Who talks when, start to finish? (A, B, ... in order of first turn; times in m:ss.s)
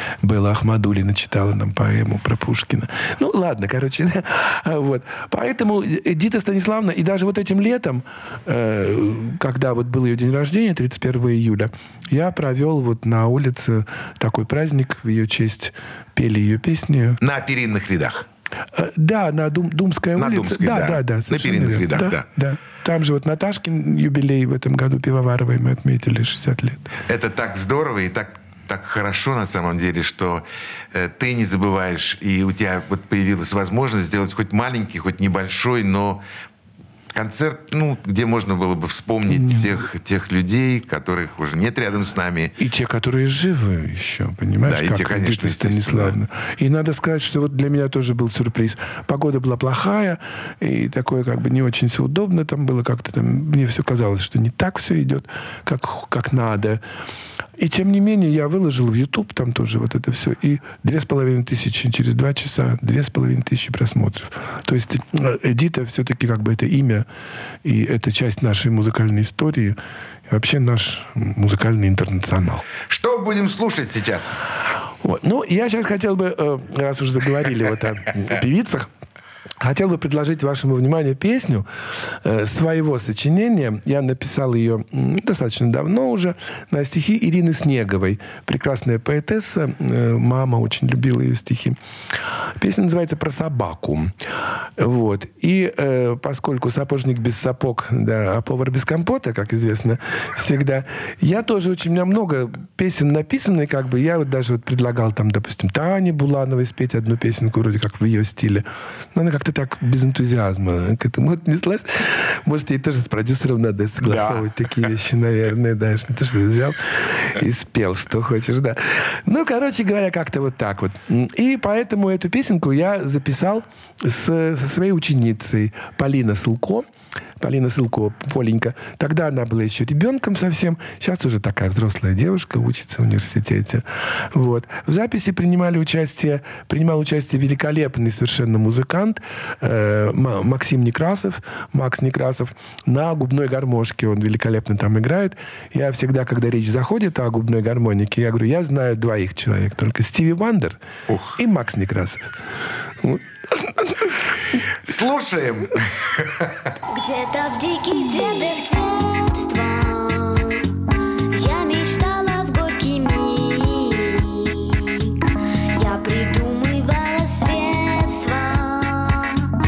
0:00.2-0:17.2 A
0:17.2-0:18.3 B
0:18.7-0:26.9 A
0:20.1-0:22.2 B
0:27.1-0:36.2 B
0:37.1-0:42.6 B
0:42.6-0:56.8 A
0:44.6-0:46.2 B
0:57.6-1:07.0 A
1:07.6-1:09.8 A
1:10.3-1:12.6 A
1:12.9-1:14.4 B
1:15.0-1:18.9 A
1:19.6-1:21.6 A
1:22.2-1:31.8 A
1:32.6-1:34.1 A
1:34.8-2:06.8 A
1:54.0-1:54.5 B
2:07.4-2:30.8 A
2:31.1-2:31.4 B
2:31.4-2:32.3 A
2:33.0-2:34.2 A
2:34.8-2:36.7 B
2:36.9-2:40.7 C
2:41.3-2:49.5 C